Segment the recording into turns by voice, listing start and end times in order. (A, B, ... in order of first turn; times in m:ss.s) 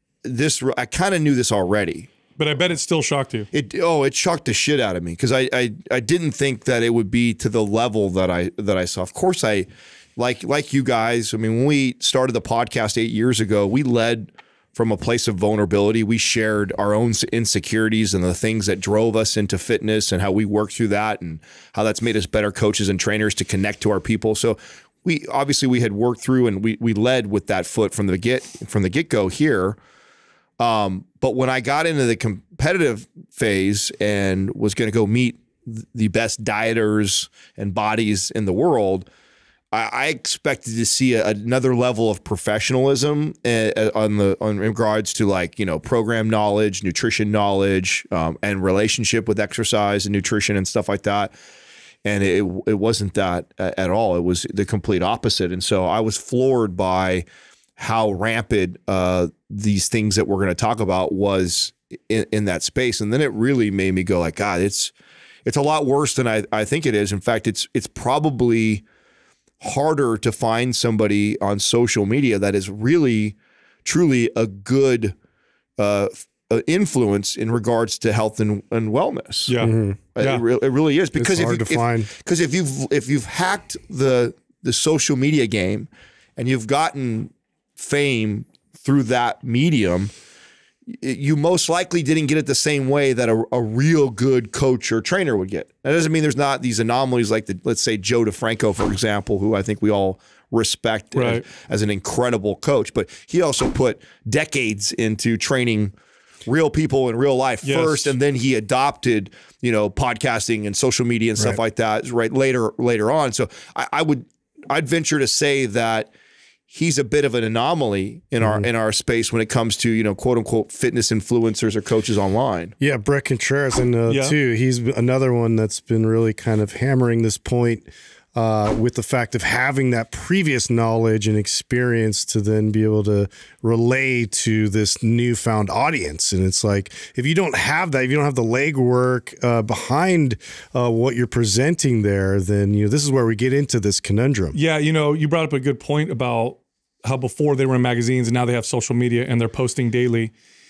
0:00.2-0:02.1 A
0:02.4-0:03.5 B
0:03.5-0:29.8 A
0:30.6-0:39.1 A
0:39.7-0:51.3 A
0:52.0-0:57.2 A
0:57.8-1:04.9 A
1:05.5-1:08.8 A
1:09.6-1:15.2 A
1:15.8-1:19.6 A
1:19.5-1:20.4 B
1:19.6-1:20.0 C
1:20.2-1:30.1 A
1:21.2-1:22.1 C
1:30.9-1:45.9 A
1:41.2-1:41.4 B
1:46.5-1:56.1 A
1:47.6-1:48.2 B
1:56.7-2:02.7 A
2:02.8-2:24.6 C
2:04.1-2:04.4 B
2:24.5-2:30.3 B